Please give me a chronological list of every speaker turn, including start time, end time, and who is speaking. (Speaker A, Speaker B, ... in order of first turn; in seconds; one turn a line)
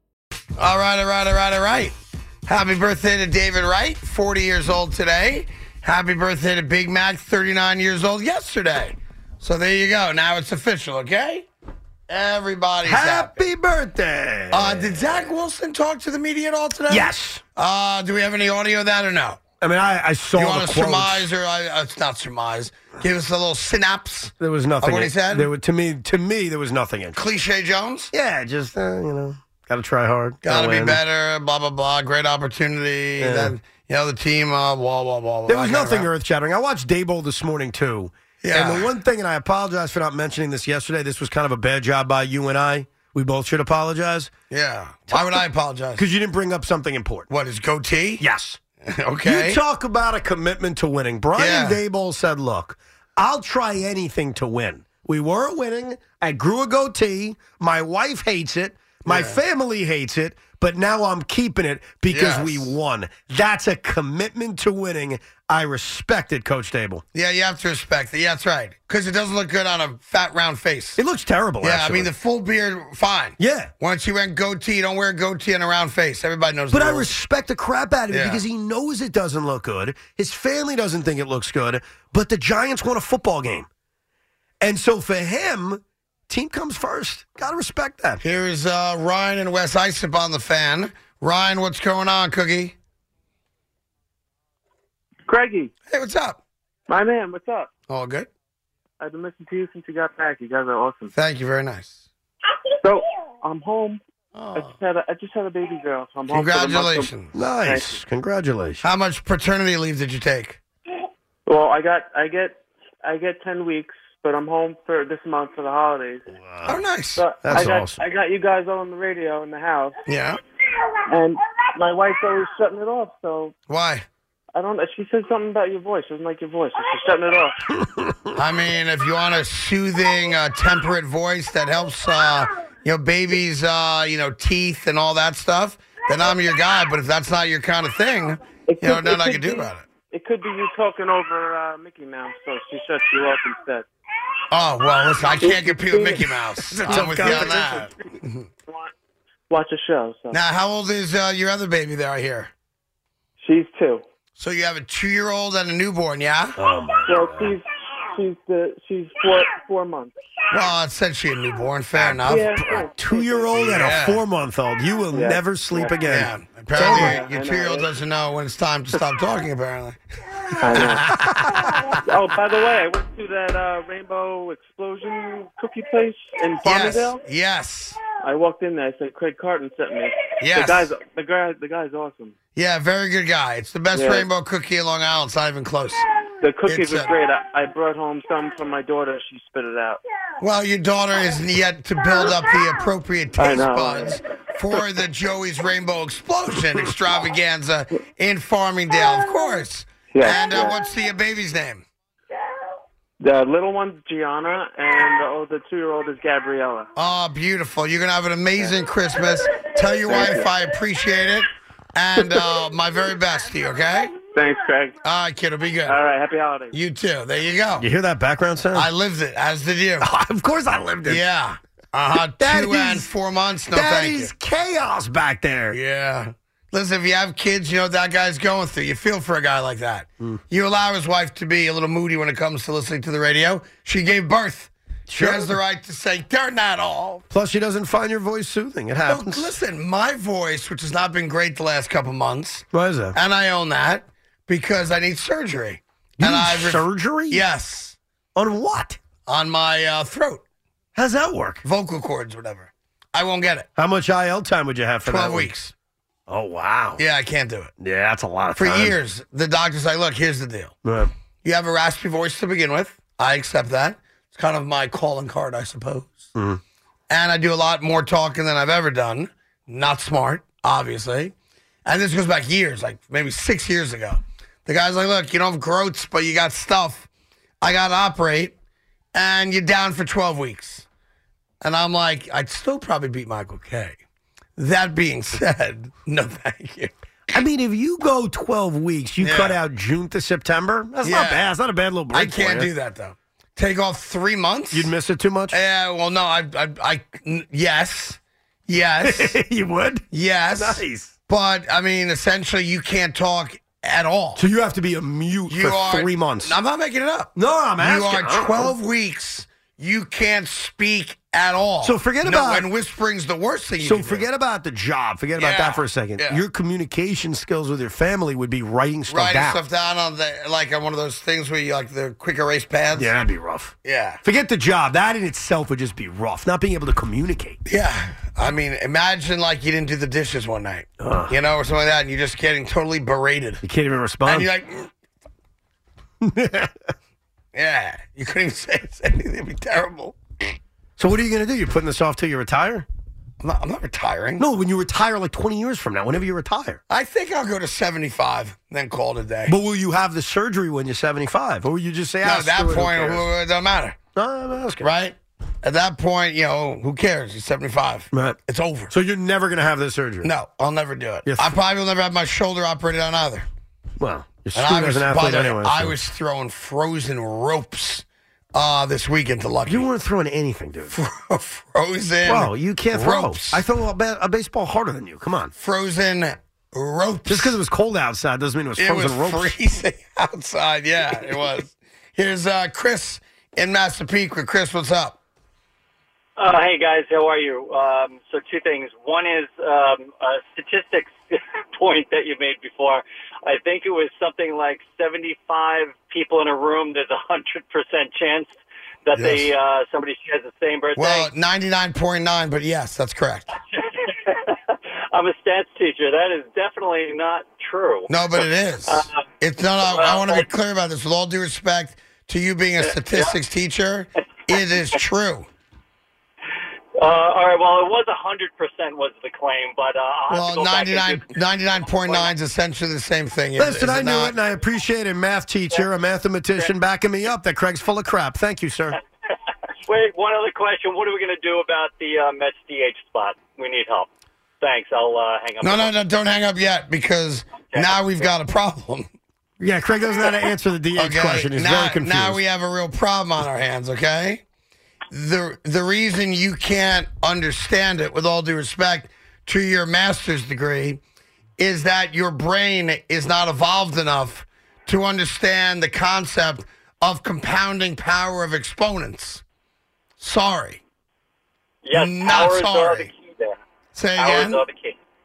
Speaker A: 0.6-1.9
Speaker A: 2.4-11.5
Speaker A: 12.1-13.4
Speaker B: 12.8-15.3
Speaker A: 14.5-19.4
Speaker B: 16.9-17.4
Speaker B: 19.6-21.3
Speaker A: 20.4-25.5
Speaker B: 24.4-27.2
Speaker A: 27.1-28.1
Speaker B: 28.1-31.0
Speaker A: 30.4-36.1
Speaker B: 33.2-33.5
Speaker B: 35.5-44.3
Speaker A: 38.4-38.9
Speaker A: 44.5-46.0
Speaker B: 45.1-45.4
Speaker B: 46.0-47.3
Speaker A: 47.3-48.2
Speaker B: 48.2-48.6
Speaker A: 48.8-49.6
Speaker B: 49.2-67.0
Speaker A: 51.4-51.8
Speaker A: 59.1-59.4
Speaker A: 62.1-62.7
Speaker A: 67.1-71.0
Speaker B: 71.0-72.1
Speaker A: 71.6-77.1
Speaker B: 73.4-73.7
Speaker B: 76.7-83.7
Speaker A: 78.1-78.4
Speaker B: 84.6-88.2
Speaker A: 88.2-92.7
Speaker C: 95.2-95.7
Speaker A: 95.9-96.4
Speaker C: 96.9-97.7
Speaker A: 97.9-98.3
Speaker C: 99.0-101.1
Speaker A: 101.1-102.0
Speaker C: 102.8-104.0
Speaker A: 104.3-104.8
Speaker C: 104.5-108.0
Speaker A: 106.3-107.3
Speaker B: 107.3-108.8
Speaker A: 108.8-110.6
Speaker C: 111.5-116.3
Speaker B: 116.3-116.8
Speaker A: 116.7-117.2
Speaker C: 117.2-120.0
Speaker B: 117.4-118.0
Speaker A: 120.1-120.4
Speaker C: 121.1-123.5
Speaker A: 123.7-124.0
Speaker C: 124.5-127.6
Speaker B: 127.7-128.3
Speaker A: 128.3-139.9
Speaker C: 138.6-143.9
Speaker A: 144.5-148.4
Speaker C: 145.4-147.9
Speaker B: 146.7-147.9
Speaker C: 148.7-148.9
Speaker C: 149.5-150.4
Speaker A: 150.3-152.5
Speaker C: 153.4-154.0
Speaker A: 154.4-156.6
Speaker B: 156.6-157.6
Speaker C: 157.0-160.1
Speaker A: 160.5-162.6
Speaker B: 161.9-167.2
Speaker C: 162.2-164.1
Speaker A: 163.6-164.2
Speaker C: 165.1-166.1
Speaker A: 166.0-170.0
Speaker C: 166.7-167.9
Speaker C: 170.5-171.1
Speaker A: 170.7-171.7
Speaker C: 172.0-177.2
Speaker A: 176.6-178.0
Speaker C: 178.2-182.3
Speaker A: 180.4-180.9
Speaker A: 182.5-186.1
Speaker C: 183.9-184.3
Speaker C: 186.4-190.0
Speaker A: 186.7-187.1
Speaker A: 190.4-201.8
Speaker C: 193.4-194.2
Speaker C: 200.1-200.8
Speaker C: 203.2-206.9
Speaker A: 206.9-214.2
Speaker C: 210.0-210.5
Speaker C: 214.2-215.0
Speaker A: 215.0-216.0
Speaker C: 215.8-216.8
Speaker A: 216.7-217.9
Speaker B: 217.8-218.9
Speaker A: 218.7-220.1
Speaker B: 220.0-221.2
Speaker A: 221.1-224.3
Speaker B: 222.4-223.1
Speaker B: 223.7-225.8
Speaker A: 225.7-237.2
Speaker B: 235.1-235.6
Speaker B: 237.3-239.5
Speaker A: 239.1-247.9
Speaker B: 242.7-243.2
Speaker B: 246.2-247.4
Speaker B: 248.3-249.0
Speaker A: 249.2-250.4
Speaker B: 250.9-251.6
Speaker A: 251.6-253.7
Speaker B: 253.8-255.5
Speaker A: 255.0-255.7
Speaker B: 256.3-257.0
Speaker A: 257.0-257.7
Speaker B: 257.8-259.0
Speaker A: 258.5-260.7
Speaker B: 260.8-261.1
Speaker A: 261.4-266.3
Speaker B: 266.3-266.6
Speaker A: 267.1-271.3
Speaker A: 271.8-277.1
Speaker A: 277.6-278.5
Speaker A: 279.1-280.9
Speaker A: 281.6-284.0
Speaker A: 284.6-286.9
Speaker B: 287.3-292.7
Speaker A: 289.2-289.6
Speaker A: 291.0-291.5
Speaker A: 292.1-294.9
Speaker B: 294.7-295.6
Speaker A: 295.5-299.4
Speaker B: 299.0-300.1
Speaker A: 300.1-304.4
Speaker B: 300.6-301.1
Speaker B: 304.4-306.6
Speaker A: 305.5-314.2
Speaker B: 307.3-308.7
Speaker B: 311.8-312.7
Speaker B: 313.8-319.6
Speaker A: 315.4-316.4
Speaker A: 319.1-323.1
Speaker B: 322.9-327.6
Speaker A: 323.8-324.2
Speaker A: 327.6-333.6
Speaker B: 331.0-331.3
Speaker B: 333.6-334.5
Speaker A: 334.2-334.9
Speaker B: 336.2-336.7
Speaker A: 337.5-340.2
Speaker B: 341.0-342.9
Speaker A: 343.4-344.4
Speaker B: 344.4-346.8
Speaker A: 346.9-349.5
Speaker B: 349.5-353.2
Speaker A: 352.2-354.0
Speaker B: 354.1-354.9
Speaker A: 354.8-358.9
Speaker B: 358.1-358.4
Speaker B: 358.9-360.3
Speaker A: 360.2-363.5
Speaker B: 361.2-361.6
Speaker B: 364.0-365.9
Speaker A: 364.5-369.9
Speaker B: 369.7-370.9
Speaker A: 370.9-373.6
Speaker B: 372.2-375.5
Speaker A: 375.6-377.6
Speaker B: 377.2-379.5
Speaker A: 378.8-385.2
Speaker B: 381.1-381.5
Speaker D: 386.4-401.3
Speaker A: 399.1-399.5
Speaker A: 401.0-403.5
Speaker D: 403.7-409.2
Speaker A: 408.1-415.5
Speaker D: 409.8-410.5
Speaker D: 412.9-413.3
Speaker D: 414.5-415.0
Speaker D: 417.0-421.3
Speaker A: 420.3-424.3
Speaker D: 421.9-422.3
Speaker B: 423.6-429.0
Speaker D: 429.8-434.1
Speaker D: 434.6-435.9
Speaker A: 435.6-439.1
Speaker D: 437.7-438.3
Speaker B: 439.6-442.4
Speaker A: 440.9-444.4
Speaker A: 445.1-451.0
Speaker A: 451.6-459.4
Speaker A: 460.2-460.8
Speaker D: 461.8-463.6
Speaker A: 461.9-463.1
Speaker A: 463.9-464.6
Speaker D: 464.1-465.0